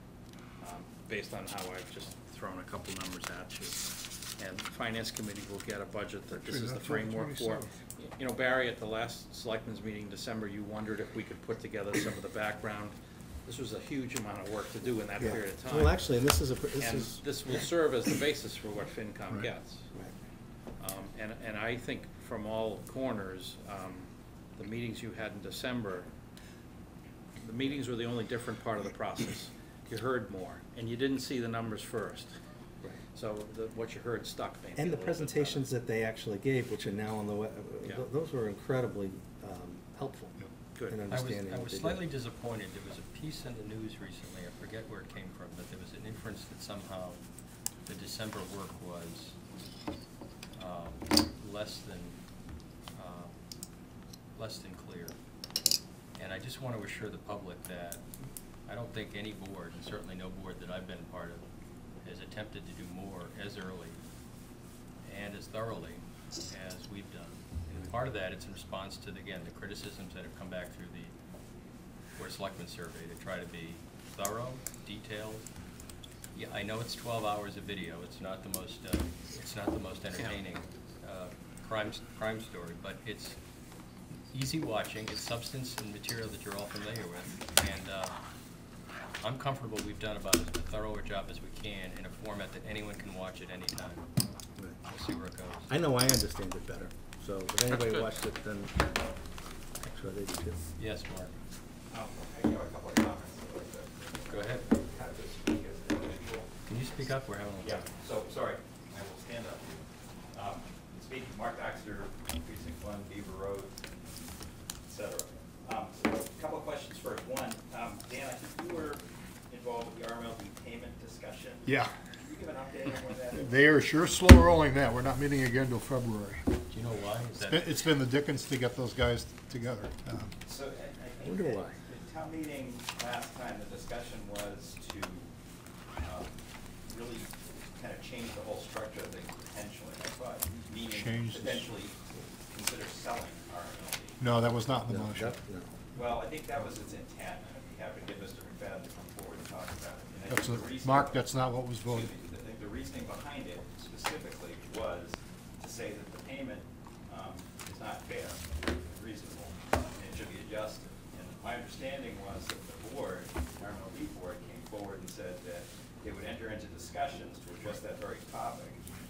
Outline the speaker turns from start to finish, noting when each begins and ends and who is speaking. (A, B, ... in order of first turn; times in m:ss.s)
0:00.6-0:12.9 A
0:06.3-0:07.7 B
0:13.4-0:16.0 A
0:15.2-0:17.2 C
0:16.8-0:19.9 A
0:20.8-0:26.1 A
0:27.4-0:32.3 A
0:33.1-0:35.6 A
0:34.8-0:40.3 C
0:40.7-0:41.0 A
0:40.8-0:42.0 C
0:41.1-0:47.2 D
0:47.8-0:49.4 D
0:50.6-0:52.2 D
0:52.9-0:53.4 D
0:54.4-0:55.2 D
0:56.2-0:58.0 D
0:58.7-1:01.4 D
1:02.0-1:04.0 D
1:05.0-1:11.1 D
1:12.2-1:15.5 D
1:16.3-1:23.4 D
1:24.3-1:28.2 D
1:29.2-1:34.0 D
1:34.8-1:35.7 D
1:35.7-1:39.1 C
1:37.7-1:38.1 A
1:39.8-1:40.6 C
1:40.8-1:41.3 D
1:41.9-1:46.5 E
1:44.3-1:44.6 D
1:46.7-1:47.8 D
1:47.6-1:53.8 E
1:54.8-2:03.6 E
2:01.6-2:02.0 B
2:03.3-2:06.5 B
2:06.7-2:07.8 D
2:07.4-2:10.3 B
2:10.4-2:15.3 E
2:11.2-2:11.8 C
2:16.0-2:16.3 E
2:16.8-2:22.0 E
2:20.9-2:21.7 B
2:22.5-2:24.2 E
2:24.2-2:25.4 B
2:24.9-2:25.7 C
2:25.9-2:48.8 E
2:30.3-2:32.1 B